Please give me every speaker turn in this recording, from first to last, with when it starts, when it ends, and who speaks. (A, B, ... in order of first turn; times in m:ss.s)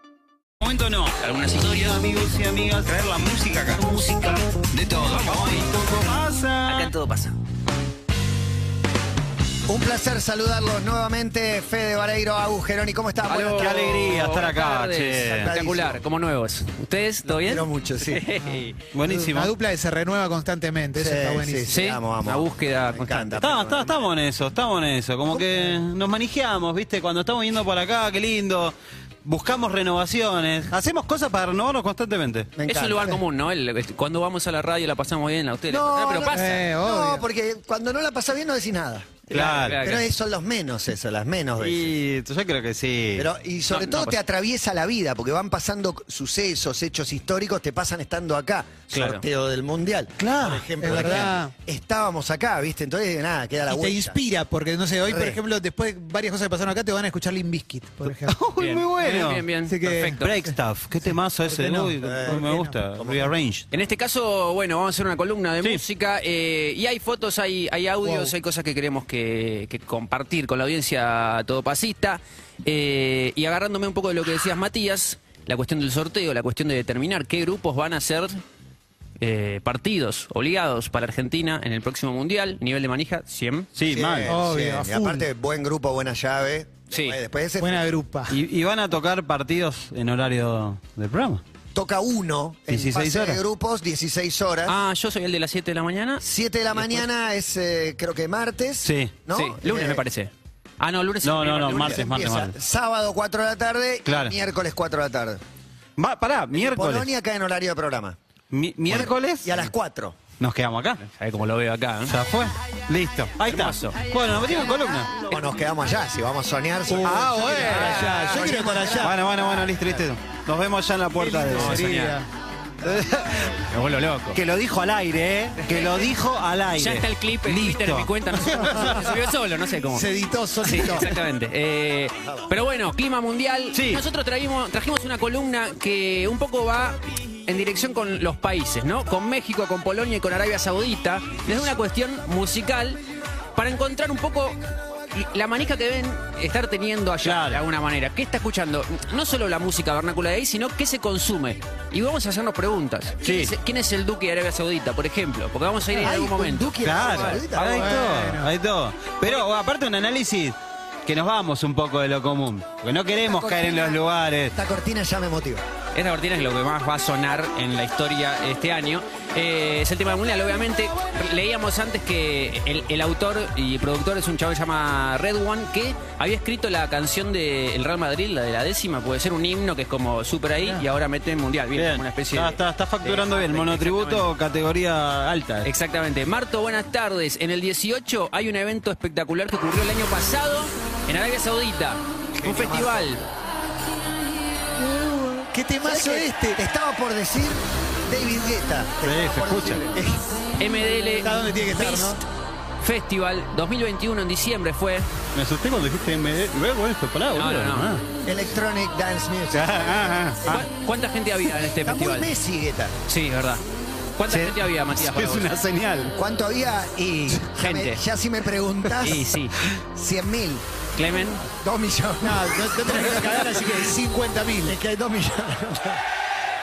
0:00.6-0:03.8 A
0:01.2-0:02.0 B
0:03.8-0:05.7 B
0:04.7-0:06.9 A
0:06.6-0:07.3 B
0:09.7-0:13.9 C
0:13.2-0:18.7 B
0:13.5-0:15.5 A
0:15.3-0:16.0 C
0:17.2-0:18.2 C
0:18.4-0:21.7 D
0:18.9-0:19.5 A
0:20.9-0:23.9 C
0:21.7-0:23.4 B
0:23.4-0:32.5 A
0:32.6-0:33.2 C
0:32.6-0:36.6 B
0:35.7-0:42.0 C
0:36.3-0:37.2 D
0:39.3-0:40.0 B
0:39.3-0:39.8 A
0:41.6-0:43.3 A
0:43.2-0:54.2 C
0:43.7-0:44.2 B
0:48.9-0:49.2 B
0:50.2-0:51.1 A
0:50.8-0:51.5 D
0:53.7-0:58.3 D
0:55.0-0:55.4 C
0:58.2-0:59.4 A
0:58.6-1:00.3 B
0:59.7-1:00.5 D
1:00.2-1:03.7 A
1:01.4-1:02.7 D
1:02.0-1:03.3 C
1:03.7-1:18.4 B
1:08.0-1:08.3 D
1:19.2-1:23.7 B
1:23.8-1:24.3 A
1:23.9-1:27.8 C
1:24.3-1:25.3 D
1:26.9-1:27.2 B
1:27.6-1:28.3 D
1:28.3-1:31.4 A
1:31.7-1:34.8 C
1:32.7-1:33.4 A
1:34.7-1:36.2 B
1:36.2-1:40.0 C
1:38.8-1:39.1 A
1:39.3-1:42.0 B
1:41.2-1:42.5 A
1:41.7-1:45.4 C
1:44.0-1:44.3 A
1:46.0-1:47.1 A
1:46.5-1:48.2 C
1:48.5-1:49.7 A
1:48.9-1:50.2 C
1:50.4-1:51.0 A
1:51.0-1:52.1 B
1:52.1-1:55.2 A
1:53.5-1:54.0 B
1:55.3-1:59.1 C
1:56.9-1:57.9 A
1:57.0-1:59.2 D
1:57.6-1:58.3 B
1:59.0-2:01.9 A
2:01.2-2:02.2 D
2:01.5-2:02.2 B
2:02.8-2:03.5 A
2:03.7-2:04.4 B
2:04.3-2:08.7 A
2:06.8-2:10.0 B
2:08.6-2:09.1 D
2:09.9-2:11.2 D
2:10.6-2:23.0 B
2:13.7-2:14.0 A
2:23.6-2:24.6 B
2:25.1-2:36.8 B
2:27.2-2:27.6 A
2:33.2-2:33.5 A
2:35.9-2:38.1 C
2:36.8-2:44.5 A
2:37.3-2:38.5 D
2:44.5-2:45.6 C
2:45.9-3:04.2 B
3:01.7-3:05.7 A
3:05.6-3:13.2 B
3:12.4-3:13.1 C
3:14.8-3:20.2 C
3:15.5-3:16.6 D
3:19.0-3:19.8 A
3:20.6-3:22.2 B
3:21.2-3:22.2 D
3:22.8-3:25.1 B
3:25.3-3:28.0 A
3:27.3-3:27.9 B
3:28.2-3:30.3 C
3:29.5-3:30.6 A
3:30.5-3:32.3 B
3:31.8-3:32.9 C
3:33.1-3:33.6 B
3:34.2-3:35.5 B
3:34.3-3:36.1 A
3:36.2-3:39.2 C
3:37.6-3:38.0 B
3:39.0-3:39.5 B
3:39.9-3:40.6 C
3:41.0-3:41.4 B
3:41.6-3:43.6 C
3:42.2-3:44.7 D
3:44.6-3:46.0 C